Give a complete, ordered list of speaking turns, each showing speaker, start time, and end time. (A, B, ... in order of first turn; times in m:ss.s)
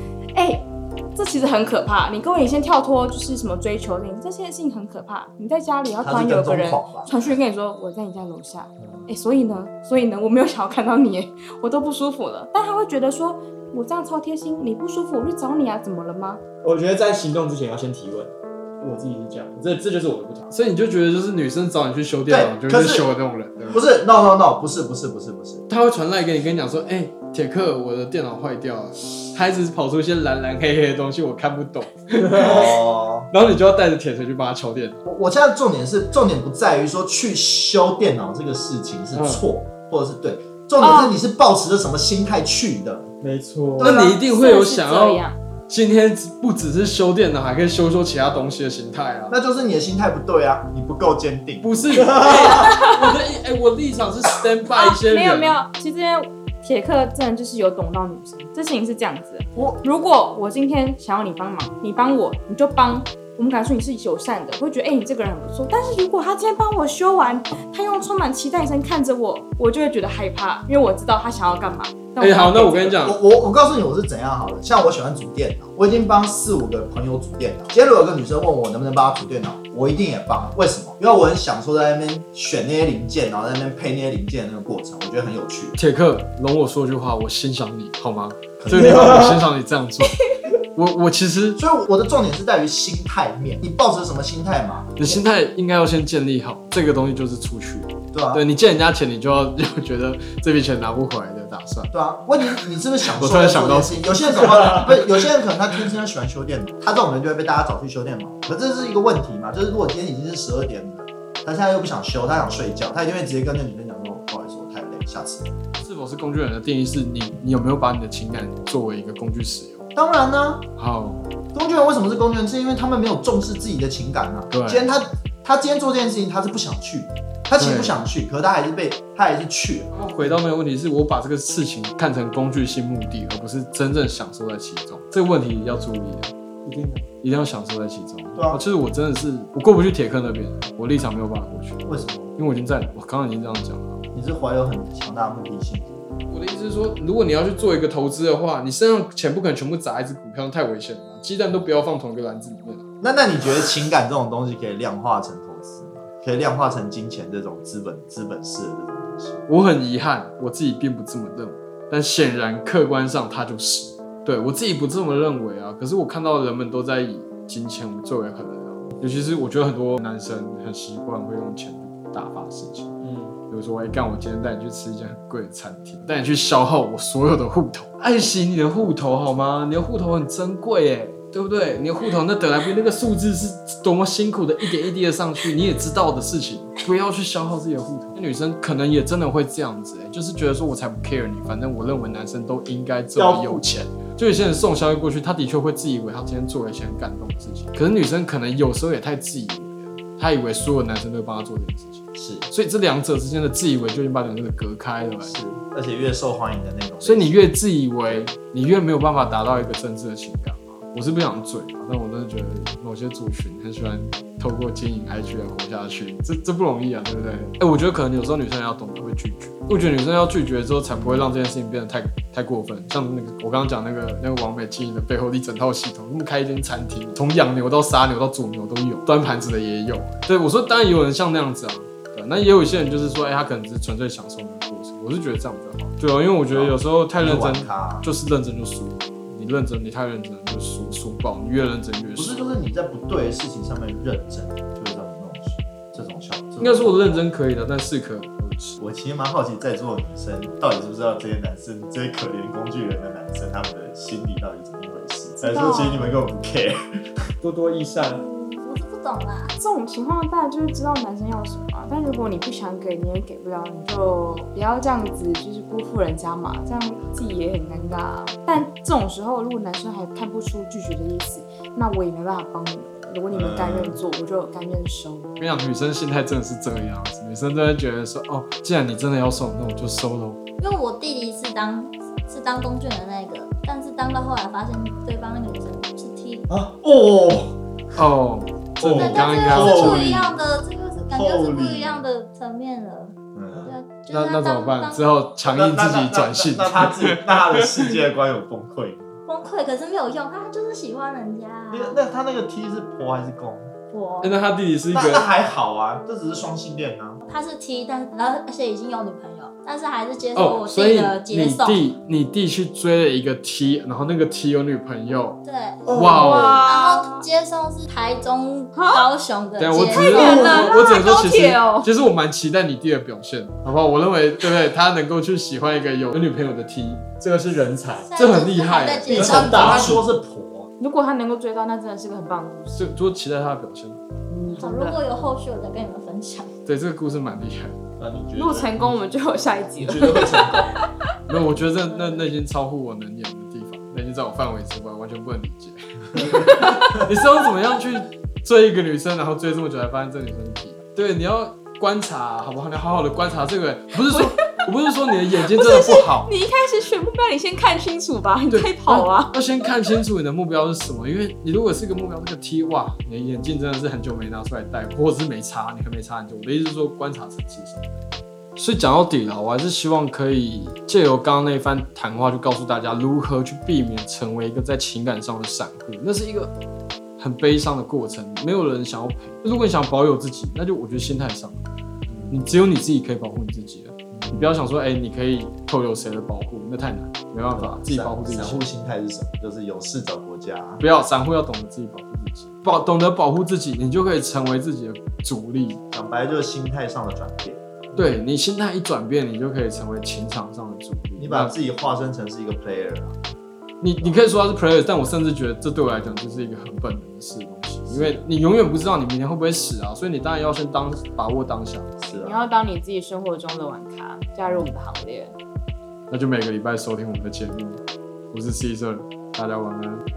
0:00.3-0:16.4 A
0:05.9-0:07.3 B
0:16.6-0:20.5 C
0:20.5-0:23.8 D
0:22.3-0:23.1 B
0:23.7-0:25.6 B
0:25.7-0:32.8 D
0:32.2-0:32.6 C
0:32.3-0:33.3 B
0:33.3-0:35.0 D
0:35.0-0:43.1 B
0:39.1-0:39.4 D
0:40.8-0:41.1 A
0:43.2-0:43.9 C
0:43.8-0:45.3 A
0:43.8-0:49.4 D
0:49.3-0:52.6 B
0:51.6-0:55.6 D
0:52.5-0:53.0 A
0:54.7-1:13.0 A
1:12.2-1:13.2 D
1:13.0-1:25.8 B
1:25.8-1:31.6 D
1:28.6-1:29.3 B
1:29.0-1:29.3 C
1:31.6-1:35.2 B
1:35.0-1:41.9 D
1:38.1-1:38.4 B
1:41.9-1:55.5 B
1:43.1-1:45.0 D
1:55.8-1:59.8 D
1:59.9-2:00.6 B
2:00.8-2:01.3 D
2:01.5-2:09.9 B
2:04.5-2:04.9 D
2:07.6-2:08.0 D
2:09.9-2:16.3 D
2:16.6-2:17.0 C
2:17.2-2:24.0 D
2:18.4-2:18.6 B
2:21.8-2:22.3 B
2:24.1-2:26.1 B
2:26.3-2:32.8 D
2:33.0-2:39.4 B
2:39.5-2:53.0 D
2:53.0-2:53.4 C
2:53.5-3:25.4 D
3:13.1-3:13.6 C
3:22.1-3:22.5 B
3:25.2-3:27.4 B
3:27.0-4:02.4 D
3:56.5-3:58.1 B
4:02.2-4:07.2 B
4:06.6-4:08.8 D
4:08.8-4:17.3 B
4:15.4-4:16.1 A
4:17.4-4:18.2 C
4:18.0-4:19.5 E
4:19.6-4:35.3 A
4:33.3-4:34.0 B
4:35.4-4:40.4 D
4:40.6-4:46.5 E
4:46.5-4:47.5 B
4:48.0-4:50.3 D
4:48.8-4:50.4 B
4:48.8-4:55.0 E
4:51.1-4:52.0 B
4:53.3-4:53.7 B
4:54.1-4:58.0 D
4:55.5-4:59.1 B
4:59.3-5:02.0 E
5:01.7-5:03.7 B
5:03.9-5:04.4 E
5:04.2-5:05.3 D
5:04.9-5:07.2 B
5:07.2-5:11.9 E
5:10.4-5:16.6 D
5:15.4-5:20.8 E
5:15.9-5:16.2 C
5:15.9-5:17.2 A
5:18.7-5:19.0 A
5:19.6-5:27.0 D
5:19.9-5:21.9 A
5:27.2-5:28.1 C
5:28.1-5:30.0 E
5:28.2-5:29.9 D
5:29.1-5:30.7 B
5:29.1-5:30.0 C
5:30.8-5:32.9 A
5:32.7-5:34.0 D
5:34.3-5:35.0 A
5:34.5-5:36.5 E
5:36.6-5:37.8 D
5:38.0-5:39.0 B
5:38.4-5:40.8 A
5:39.8-5:40.8 B
5:41.3-5:56.3 D
5:41.9-5:42.2 A
5:46.4-5:47.0 A
5:55.4-5:59.3 A
5:58.5-6:07.9 D
6:08.6-6:16.5 D
6:17.2-6:21.6 D
6:22.1-6:22.4 B
6:22.3-6:28.6 D
6:24.1-6:24.4 B
6:27.5-6:30.8 B
6:30.8-6:35.8 D
6:35.9-6:37.9 B
6:37.9-6:41.5 D
6:41.2-6:43.1 B
6:43.8-6:52.0 D
6:47.9-6:48.2 B
6:52.0-6:52.5 B
6:52.2-6:55.3 A
6:54.4-6:54.7 B
6:56.1-6:57.8 D
6:58.3-7:00.0 D